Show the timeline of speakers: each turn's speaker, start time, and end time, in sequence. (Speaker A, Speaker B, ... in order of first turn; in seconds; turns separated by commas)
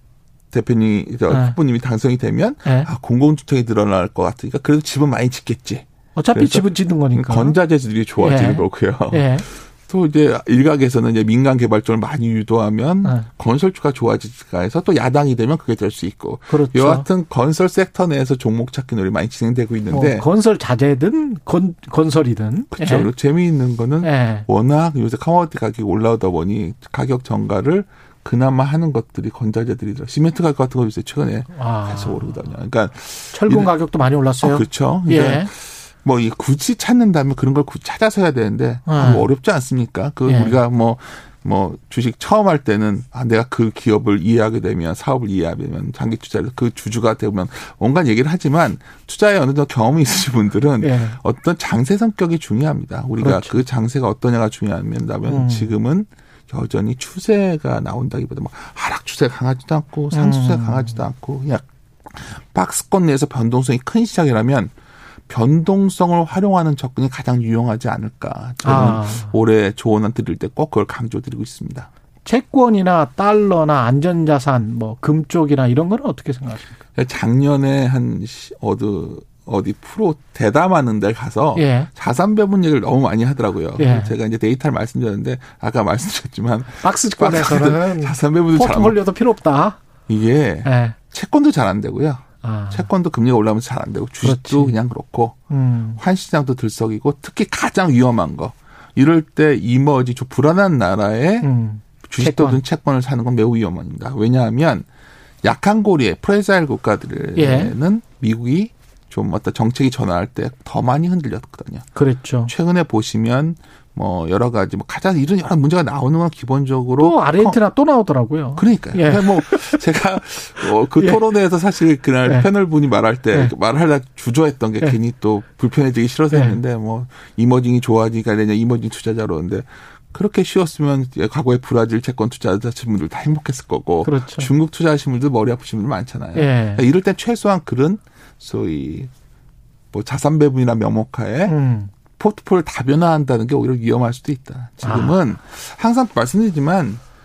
Speaker A: 0.5-20.3, Speaker B: 1.3-1.6, Speaker B: 6.2-7.6, Speaker B: 8.2-9.4, Speaker B: 16.5-17.1, Speaker B: 19.9-23.1, Speaker A: 22.7-33.7, Speaker B: 24.0-24.5, Speaker B: 31.5-32.4, Speaker B: 33.3-35.5, Speaker A: 34.4-64.7, Speaker B: 38.9-39.3, Speaker B: 40.3-40.6, Speaker B: 50.8-51.2, Speaker B: 53.2-53.6, Speaker B: 55.3-55.8, Speaker B: 60.1-61.0, Speaker A: 65.3-71.9, Speaker B: 68.6-69.3, Speaker B: 72.2-76.8, Speaker A: 77.0-89.0, Speaker B: 81.6-81.9, Speaker B: 83.8-84.1, Speaker B: 86.8-89.8, Speaker A: 90.1-95.4, Speaker B: 90.7-91.0, Speaker B: 92.4-92.9, Speaker B: 94.2-94.8, Speaker B: 95.5-96.0, Speaker A: 96.0-101.5, Speaker B: 101.4-102.6, Speaker A: 102.0-104.9, Speaker A: 105.4-111.9, Speaker B: 107.4-107.7, Speaker B: 112.0-112.5, Speaker A: 112.5-117.6, Speaker B: 117.0-119.8, Speaker A: 118.6-139.1, Speaker B: 121.0-121.2, Speaker B: 126.3-126.6, Speaker B: 134.1-134.5, Speaker B: 136.3-136.8, Speaker A: 139.9-141.6, Speaker B: 141.5-141.9, Speaker A: 142.1-147.0, Speaker B: 144.8-145.2